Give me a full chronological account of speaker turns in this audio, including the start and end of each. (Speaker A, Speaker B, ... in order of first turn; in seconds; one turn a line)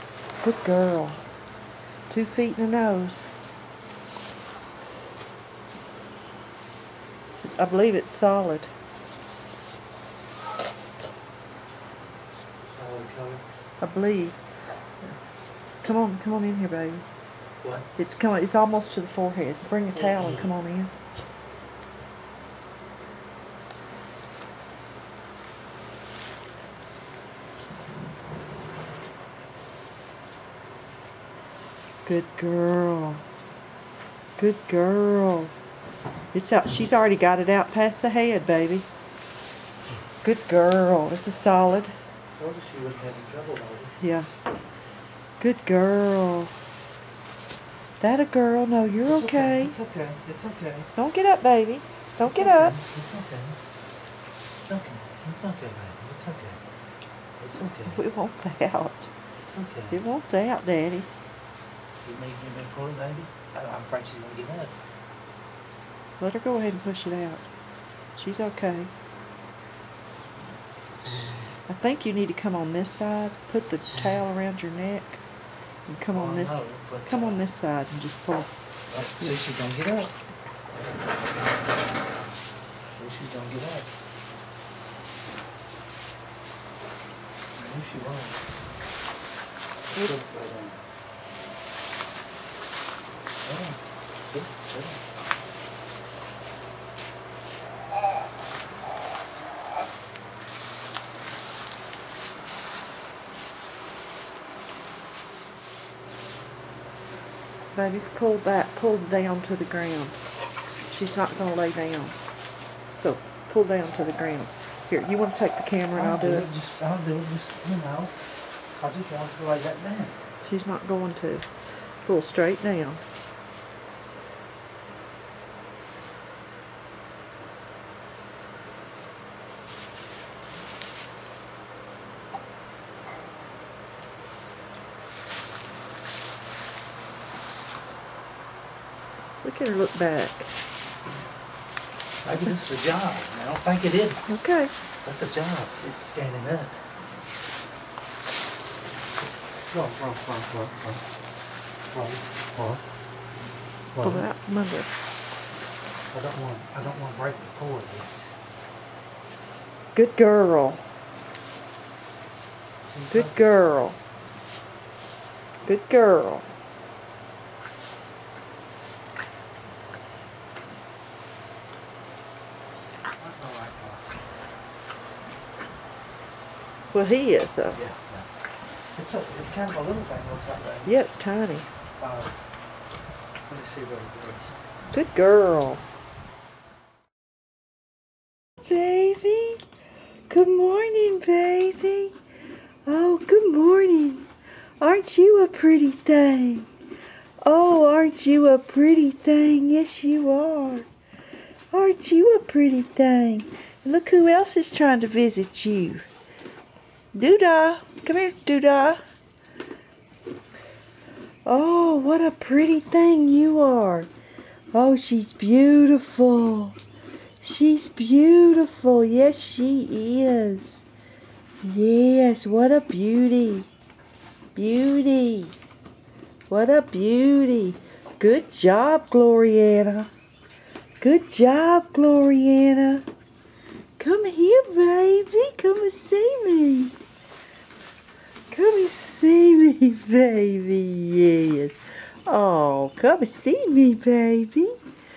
Speaker A: 0.4-1.2
Speaker A: 2.1-3.3
Speaker A: 7.4-8.7
Speaker B: 12.7-13.4
Speaker A: 13.8-14.4
Speaker A: 15.8-17.0
Speaker B: 17.6-17.9
Speaker A: 17.9-20.9
Speaker B: 19.9-20.5
Speaker A: 32.0-33.2
Speaker A: 34.4-35.5
Speaker A: 36.3-38.9
Speaker A: 40.2-41.9
Speaker B: 42.4-44.0
Speaker A: 44.0-44.3
Speaker A: 45.4-46.5
Speaker A: 48.0-49.8
Speaker B: 49.0-50.9
Speaker A: 51.0-52.8
Speaker B: 52.2-53.6
Speaker B: 54.6-56.6
Speaker B: 57.4-58.0
Speaker A: 57.9-59.1
Speaker B: 59.4-60.0
Speaker A: 59.9-61.1
Speaker B: 62.0-64.7
Speaker A: 66.2-67.5
Speaker A: 68.2-68.9
Speaker A: 71.7-75.2
Speaker A: 75.9-78.5
Speaker B: 76.1-77.4
Speaker B: 78.9-80.1
Speaker B: 83.0-83.9
Speaker B: 87.6-88.4
Speaker B: 89.9-90.8
Speaker B: 93.4-95.0
Speaker A: 107.7-110.2
Speaker A: 110.9-112.2
Speaker A: 113.0-116.5
Speaker B: 115.9-120.2
Speaker A: 120.4-121.5
Speaker A: 122.0-123.0
Speaker A: 139.4-140.5
Speaker B: 142.2-144.3
Speaker A: 144.3-144.7
Speaker B: 145.0-146.8
Speaker B: 149.7-151.0
Speaker B: 151.9-152.8
Speaker B: 153.9-154.2
Speaker A: 154.0-154.9
Speaker B: 156.1-158.3
Speaker A: 159.9-160.8
Speaker B: 162.9-163.4
Speaker A: 163.1-164.0
Speaker A: 165.6-166.5
Speaker B: 173.1-174.2
Speaker A: 176.9-177.8
Speaker B: 177.7-180.9
Speaker A: 180.8-181.7
Speaker B: 182.0-182.3
Speaker B: 183.5-184.5
Speaker A: 184.9-185.8
Speaker A: 188.6-189.6
Speaker A: 190.3-192.1
Speaker A: 192.8-194.3
Speaker A: 194.8-196.7
Speaker A: 197.4-200.9
Speaker A: 201.7-206.1
Speaker A: 207.1-209.0
Speaker A: 211.4-214.1
Speaker A: 214.7-216.8
Speaker A: 217.4-220.8
Speaker A: 221.6-223.7
Speaker A: 224.5-225.5
Speaker A: 226.5-230.1
Speaker A: 231.0-233.1
Speaker A: 234.0-236.9
Speaker A: 238.5-244.8